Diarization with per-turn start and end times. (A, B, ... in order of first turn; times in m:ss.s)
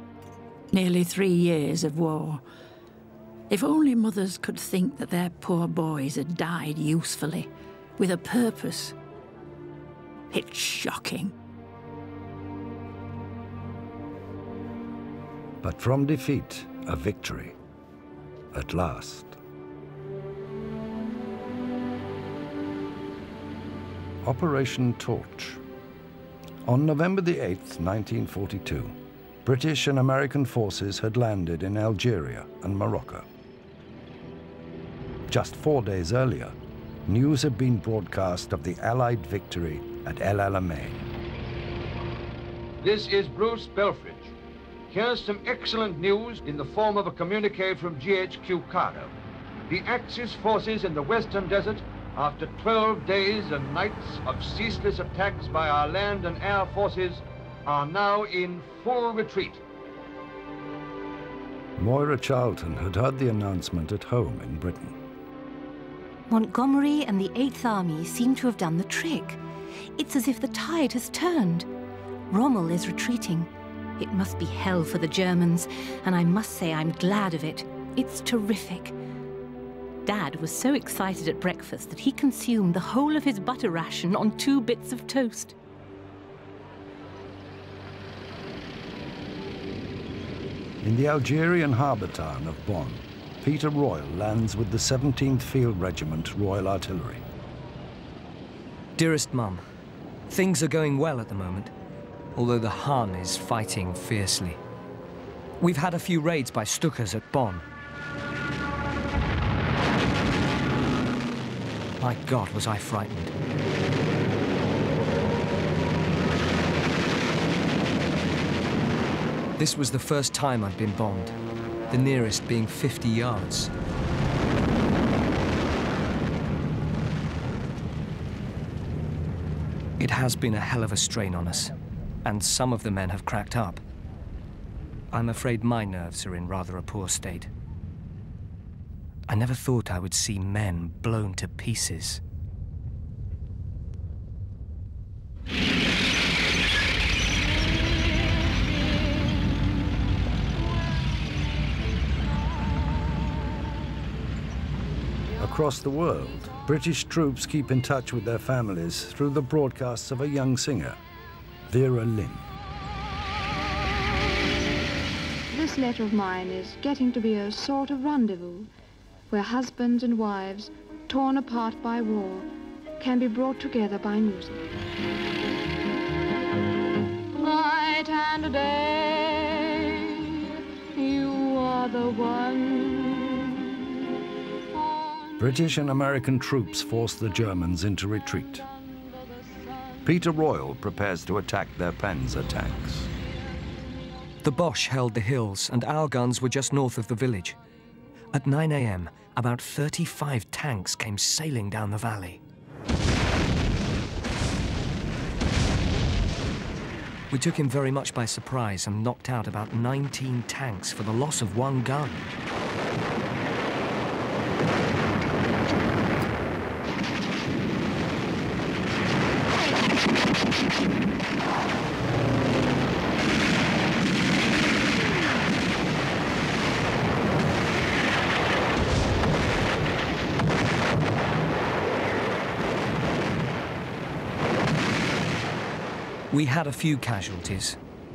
0:00.7-0:02.4 A
0:03.5-0:07.5 A
0:08.0-0:08.9 A
0:10.3-0:11.3 A
0:15.6-0:17.6 B
0:18.5-0:19.4 B
0:24.2-0:25.6 B
0:26.6-0:33.2 B
0:35.3-0:36.6 B
0:37.1-0:41.0 B
0:42.8-0:44.3 C
0:44.9-0:49.1 C
0:49.7-0:59.6 C
1:01.8-1:05.0 B
1:06.3-1:09.4 D
1:10.0-1:11.6 D
1:12.3-1:18.9 D
1:20.0-1:25.5 D
1:30.8-1:37.2 B
1:39.0-1:39.6 E
1:40.3-1:41.7 E
1:42.3-1:44.6 E
1:45.6-1:47.6 E
1:52.0-1:53.3 E
1:59.6-2:01.4 E
2:01.9-2:03.7 E
2:10.0-2:13.8 E
2:15.1-2:17.5 E
2:19.3-2:22.2 E
2:35.4-2:41.0 B
2:41.7-2:42.4 B
2:45.5-2:48.7 F
2:49.3-2:52.5 F
2:53.0-2:54.6 F
2:57.3-3:04.0 F
3:05.4-3:08.6 B
3:10.0-3:13.1 B
3:14.4-3:17.6 E
3:18.3-3:22.4 E
3:27.3-3:32.4 E
3:56.3-3:57.8 E